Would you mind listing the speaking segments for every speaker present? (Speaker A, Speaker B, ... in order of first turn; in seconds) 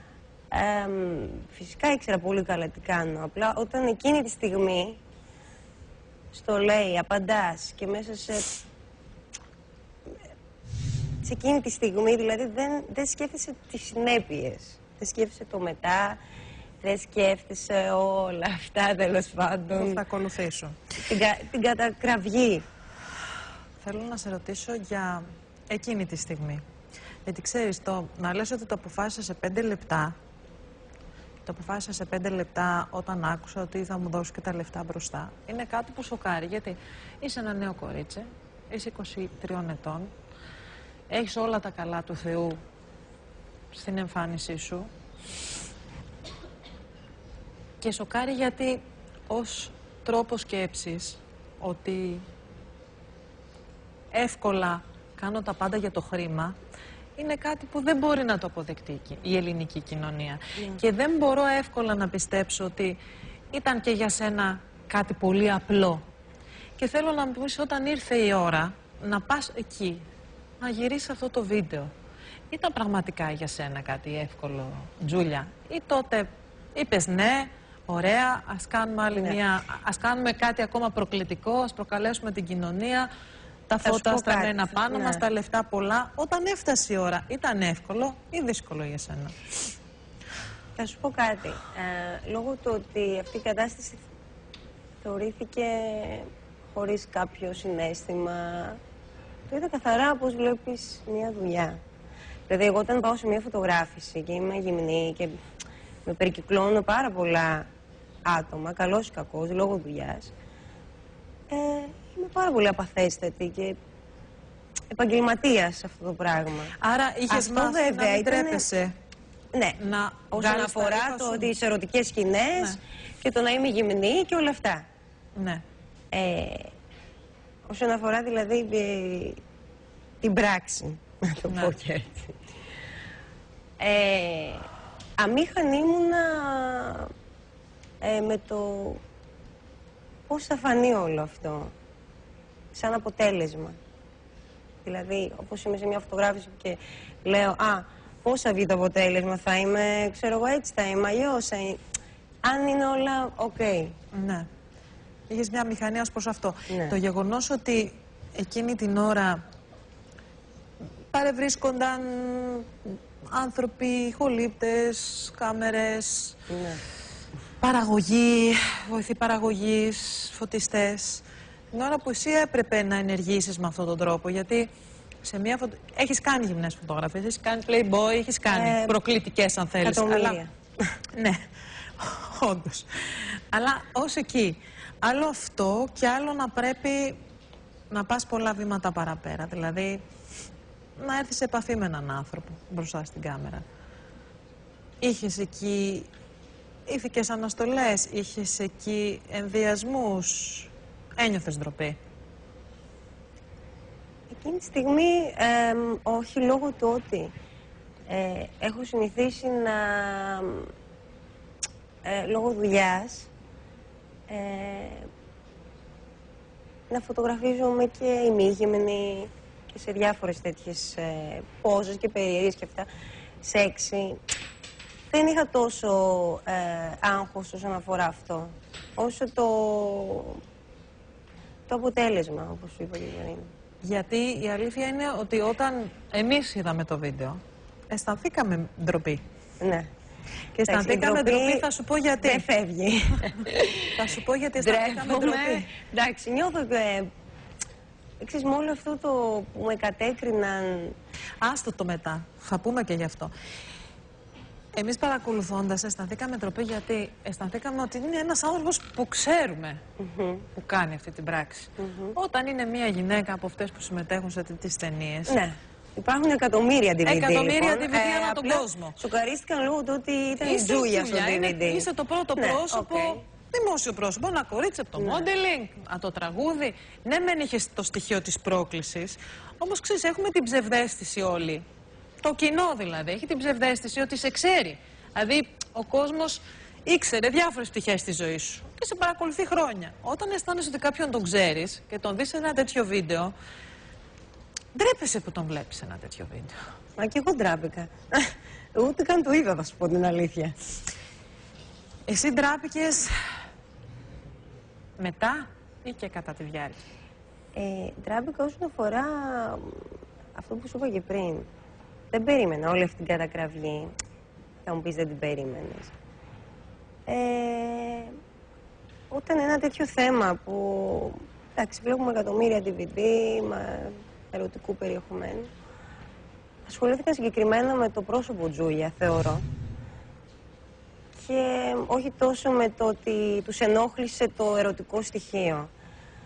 Speaker A: 0.5-5.0, 6.3-8.5, 11.2-16.2, 16.8-20.0, 21.0-22.6, 83.8-85.2, 90.8-94.0, 95.0-98.8, 99.5-101.8, 102.5-105.3, 106.1-107.7, 108.2-110.3, 111.5-113.8, 114.9-116.8, 117.3-118.7, 119.5-119.8, 120.3-124.8, 126.1-126.7, 127.7-129.4, 130.2-132.4, 133.8-134.7, 135.2-137.1, 138.0-139.0, 140.3-141.7, 142.7-143.8, 144.8-151.8, 152.4-154.0, 156.7-157.0, 166.5-166.8, 178.5-178.9, 179.8-180.9, 204.3-207.3, 208.1-210.7, 212.1-213.3, 214.3-215.1, 216.9-222.9, 223.4-224.2, 225.1-230.4, 231.7-233.5, 239.6-239.9, 240.7-241.7, 242.2-244.0, 244.6-247.1, 248.2-250.9, 260.0-260.5, 261.8-262.2, 265.3-273.2, 275.0-275.3, 297.0-300.6, 307.6-311.5, 312.1-313.9, 314.6-315.9, 317.1-318.1, 319.1-325.5, 326.7-329.4, 331.1-335.7
Speaker B: 19.7-20.8, 23.8-26.6, 27.3-30.1, 31.4-40.1, 41.1-42.6, 43.7-44.9, 47.8-52.2, 54.1-56.5, 57.2-63.0, 63.5-66.0, 66.8-70.0, 70.6-71.9, 72.5-83.1, 83.7-89.3, 116.8-118.9, 119.8-121.5, 125.4-125.6, 131.5-131.7, 154.1-154.5, 155.3-159.4, 161.1-166.4, 167.6-174.7, 175.2-180.4, 181.1-181.4, 182.0-187.2, 187.9-190.0, 191.0-193.6, 195.0-196.1, 196.9-202.0, 233.8-239.2, 240.6-242.4, 243.9-245.7, 251.4-253.3, 254.8-259.8, 260.6-265.4, 267.1-269.0, 270.4-281.7, 282.2-293.3, 294.7-296.6, 302.1-303.1, 305.0-306.8